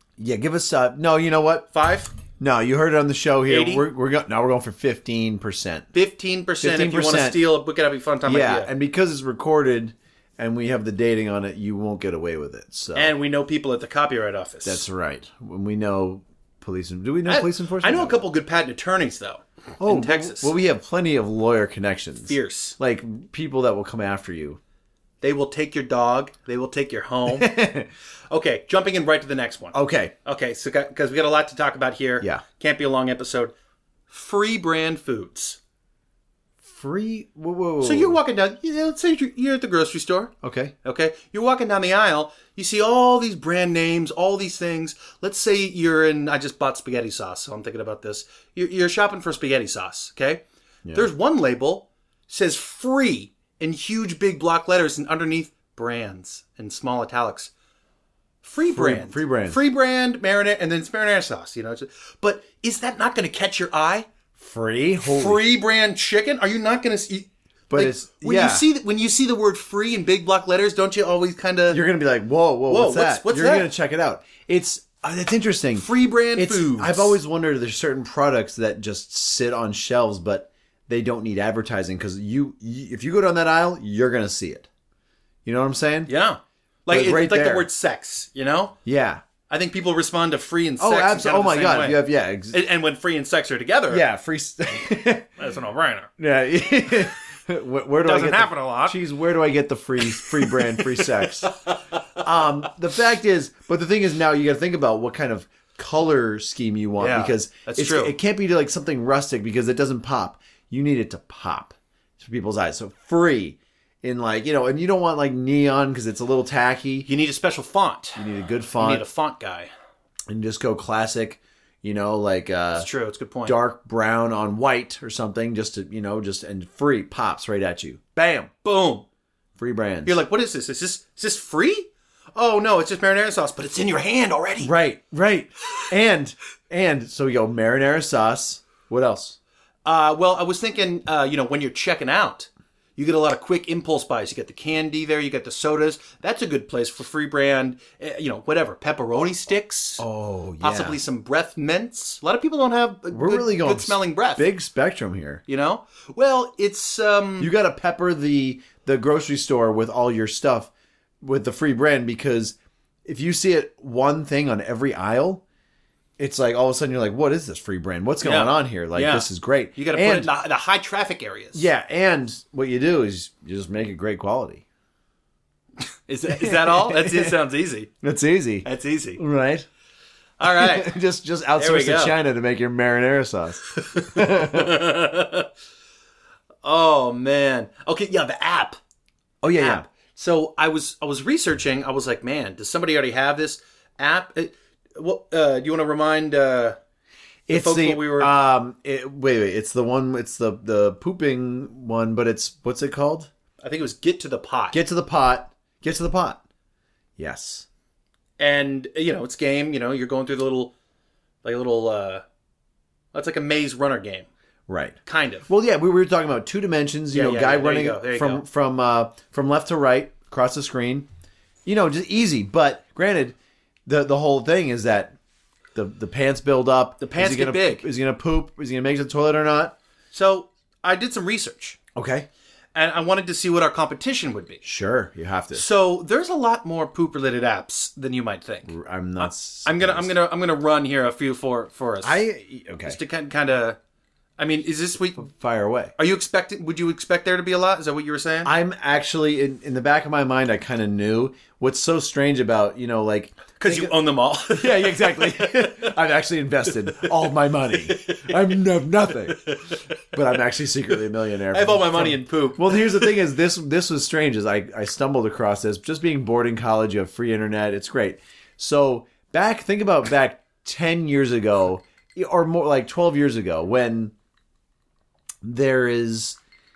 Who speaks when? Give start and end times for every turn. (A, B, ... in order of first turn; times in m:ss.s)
0:00.2-0:01.7 A
0:01.7-0:02.1 B
0:02.4-0:05.9 A
0:03.5-0:03.8 B
0:05.9-0:08.7 B
0:06.6-0:07.4 A
0:08.2-0:13.1 A
0:12.9-0:14.8 B
0:14.6-0:18.2 A
0:17.2-0:20.5 B
0:19.8-0:24.6 A
0:22.2-0:22.8 B
0:25.2-0:27.6 B
0:27.3-0:27.9 A
0:28.3-0:33.5 B
0:29.7-0:30.1 A
0:34.1-0:35.6 B
0:36.6-0:38.2 A
0:37.8-0:50.4 B
0:40.4-0:40.7 A
0:50.8-0:51.1 A
0:50.9-0:57.5 B
0:58.4-1:04.1 B
0:58.7-0:59.6 A
1:04.4-1:05.4 A
1:05.0-1:11.8 B
1:07.7-1:08.6 A
1:11.7-1:24.7 A
1:12.7-1:13.7 B
1:15.8-1:17.2 B
1:25.4-1:26.1 A
1:26.0-1:28.7 B
1:26.9-1:27.7 A
1:28.8-1:29.2 A
1:29.5-1:34.0 B
1:30.8-1:32.6 A
1:33.9-1:35.3 A
1:35.4-1:36.1 B
1:36.2-1:41.6 A
1:38.0-1:39.0 B
1:40.1-1:41.8 B
1:42.1-1:57.1 A
1:47.0-1:48.2 B
1:57.0-1:58.2 B
1:58.2-1:59.0 A
1:58.8-1:59.7 B
2:00.3-2:02.9 A
2:02.7-2:03.6 B
2:03.4-2:08.5 A
2:08.6-2:09.0 B
2:09.6-2:10.2 A
2:10.0-2:14.7 B
2:14.6-2:19.4 A
2:19.8-2:30.0 B
2:30.0-2:31.0 A
2:30.6-2:34.5 B
2:33.1-2:35.4 A
2:35.5-2:37.5 B
2:37.4-2:40.7 A
2:41.2-2:45.4 A
2:46.2-2:50.3 A
2:48.2-2:51.7 B
2:51.5-2:54.6 A
2:56.1-2:57.9 B
2:56.3-2:57.4 A
2:58.0-2:59.7 A
2:58.6-2:59.2 B
3:00.4-3:00.9 B
3:00.4-3:04.8 A
3:01.6-3:02.2 B
3:03.7-3:05.5 B
3:06.6-3:08.8 B
3:09.4-3:09.8 A
3:09.5-3:16.8 B
3:17.5-3:23.3 A
3:17.5-3:18.3 B
3:23.6-3:24.8 B
3:24.7-3:26.4 A
3:27.2-3:27.6 A
3:28.4-3:30.7 B
3:31.4-3:32.2 B
3:33.1-3:34.3 B
3:34.7-3:41.1 A
3:35.0-3:35.5 B
3:37.1-3:38.4 B
3:41.6-3:45.1 A
3:45.7-3:49.7 A
3:47.0-3:47.8 B
3:50.1-3:51.8 B
3:51.9-3:52.3 A
3:52.7-3:54.6 B
3:54.6-3:55.6 A
3:55.5-4:02.2 B
3:58.7-4:00.1 A
4:02.0-4:03.0 A
4:02.8-4:03.8 B
4:04.4-4:05.3 B
4:05.2-4:05.9 A
4:06.0-4:08.5 B
4:08.4-4:13.9 A
4:13.6-4:15.9 B
4:14.5-4:19.4 A
4:17.7-4:18.6 B
4:19.3-4:19.8 B
4:20.0-4:34.1 A
4:21.5-4:23.2 B
4:35.4-4:36.4 A